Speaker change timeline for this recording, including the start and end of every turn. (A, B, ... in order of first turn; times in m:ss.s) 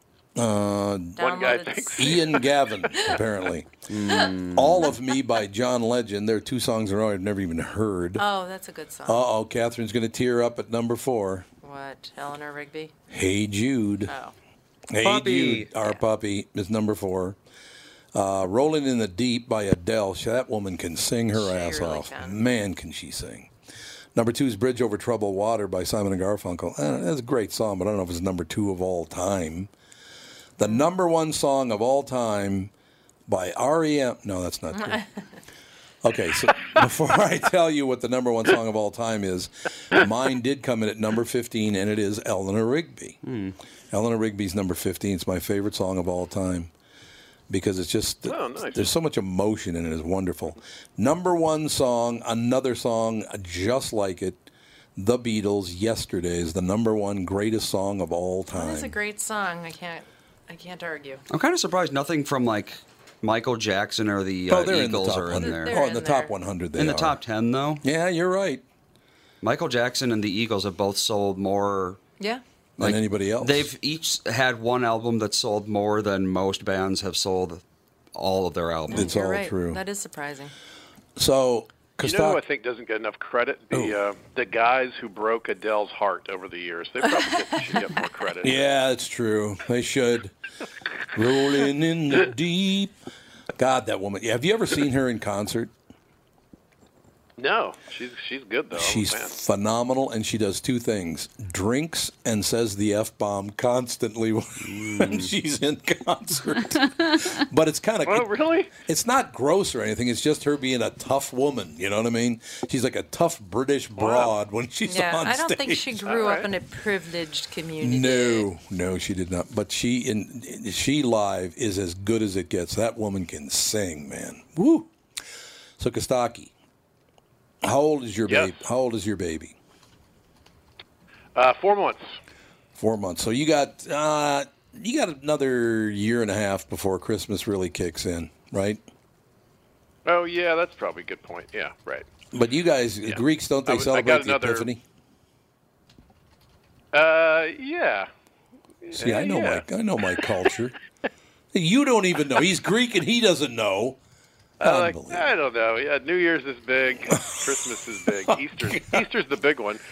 0:00.4-0:01.2 A
0:01.2-0:03.1 B
0:01.2-0:02.2 C
0:02.0-0:03.7 A
0:03.9-0:04.8 D
0:04.5-0:08.2 A
0:08.2-0:09.2 B
0:09.0-0:11.4 A
0:11.6-0:12.9 B
0:13.1-0:14.1 A
0:14.1-0:14.3 B
0:14.9-0:17.4 A
0:15.0-0:15.7 D
0:18.1-0:23.5 A
0:21.3-0:22.4 B
0:24.1-0:29.7 A
0:30.6-0:32.7 A
0:33.3-0:35.0 A
0:36.0-0:43.2 A
0:43.2-0:43.6 D
0:43.9-0:46.7 A
0:47.5-0:58.9 A
0:48.2-0:48.9 C
0:58.5-1:01.2 B
1:01.3-1:05.8 D
1:04.5-1:07.2 A
1:05.3-1:06.3 B
1:06.8-1:07.8 D
1:07.8-1:08.6 A
1:09.4-1:12.0 D
1:12.8-1:13.7 A
1:12.8-1:17.6 D
1:18.1-1:19.1 D
1:18.9-1:19.8 A
1:18.9-1:20.5 B
1:21.2-1:22.4 A
1:22.0-1:28.6 C
1:23.7-1:24.0 A
1:28.4-1:30.3 A
1:31.1-1:33.0 A
1:33.6-1:35.7 A
1:37.4-1:39.3 C
1:38.7-1:56.1 A
1:44.6-1:45.3 D
1:48.0-1:48.7 C
1:54.0-1:54.3 C
1:54.8-1:58.5 B
1:56.0-1:56.5 C
1:57.8-2:04.9 A
2:05.8-2:06.5 A
2:07.6-2:09.6 A
2:08.2-2:08.5 C
2:11.3-2:12.1 C
2:12.8-2:18.8 A
2:20.0-2:22.0 C
2:22.3-2:24.8 A
2:23.0-2:24.7 C
2:26.9-2:28.1 C
2:28.8-2:30.4 C
2:28.9-2:30.7 A
2:31.5-2:34.0 A
2:34.6-2:35.3 A
2:34.6-2:39.8 C
2:37.1-2:39.1 A